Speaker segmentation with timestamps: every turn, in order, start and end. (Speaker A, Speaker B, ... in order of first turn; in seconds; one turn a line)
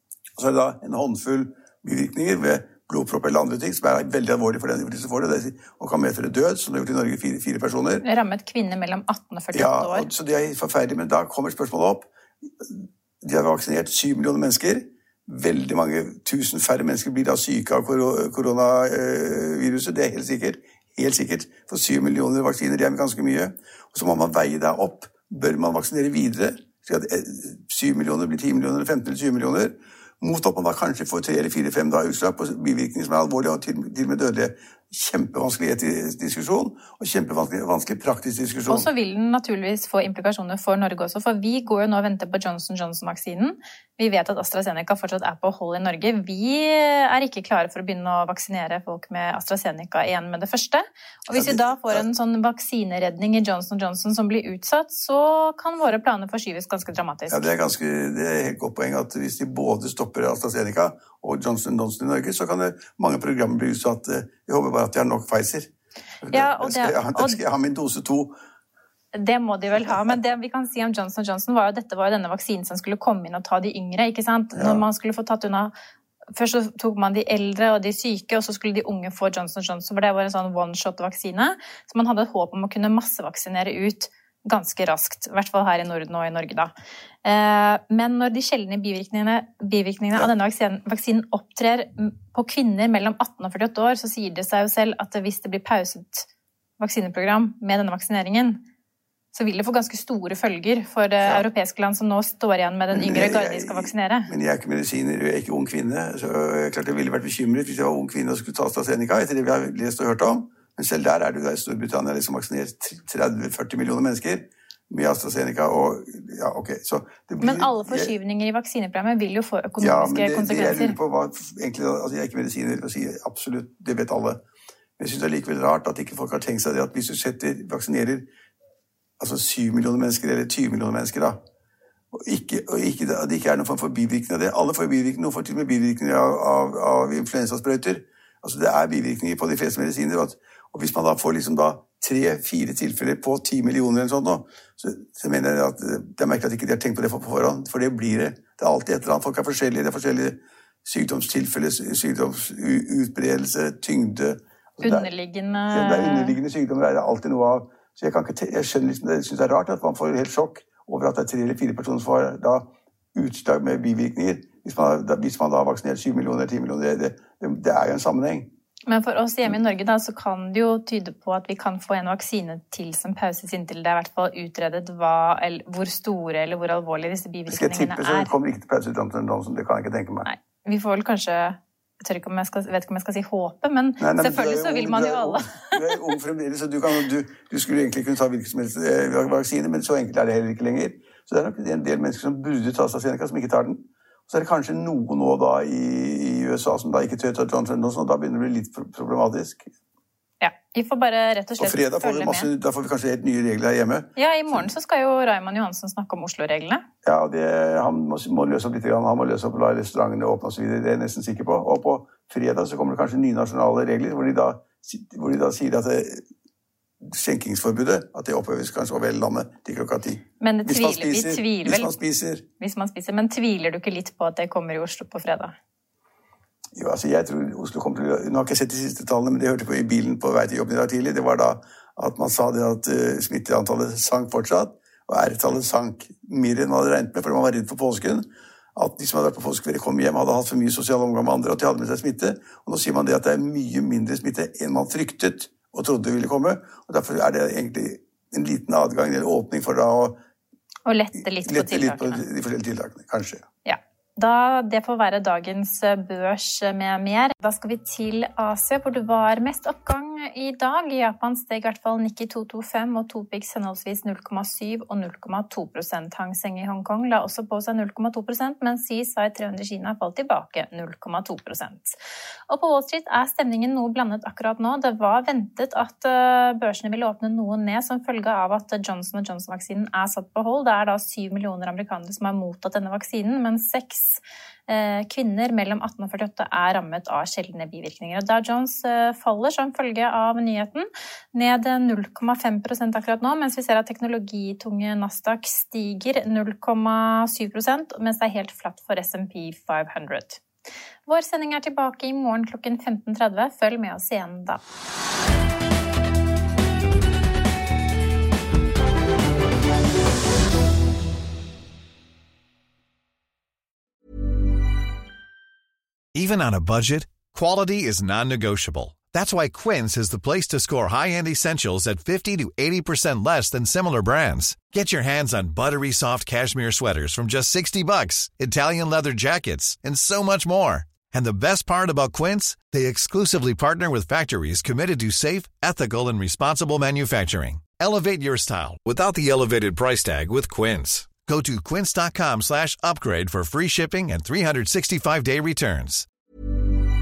Speaker A: 0.4-8.1
Speaker B: 8.0-10.1
Speaker A: 9.5-38.9
Speaker B: 38.7-57.5
Speaker A: 51.3-52.0
Speaker A: 57.3-65.7
Speaker A: 66.2-68.3
Speaker B: 66.3-67.4
Speaker B: 69.1-75.7
Speaker A: 74.6-74.8
Speaker B: 76.4-86.7
Speaker B: 87.2-96.3
Speaker B: 96.8-98.6
Speaker B: 99.3-104.3
Speaker A: 102.9-118.1
Speaker B: 117.4-121.0
Speaker A: 119.8-124.4
Speaker A: 125.0-128.3
Speaker A: 129.2-131.4
Speaker A: 132.1-155.1
Speaker B: 154.8-156.4
Speaker A: 155.7-168.5
Speaker B: 168.9-178.3
Speaker A: 177.5-180.3
Speaker B: 180.2-186.1
Speaker A: 184.0-199.7
Speaker B: 200.4-202.5
Speaker A: 201.6-204.7
Speaker B: 204.2-206.8
Speaker A: 207.0-216.2
Speaker A: 217.0-222.4
Speaker B: 220.4-221.9
Speaker B: 222.6-225.6
Speaker A: 226.7-250.2
Speaker B: 250.9-252.2
Speaker A: 251.2-253.5
Speaker B: 253.7-272.0
Speaker B: 272.5-300.4
Speaker B: 301.1-304.6
Speaker C: 316.1-346.1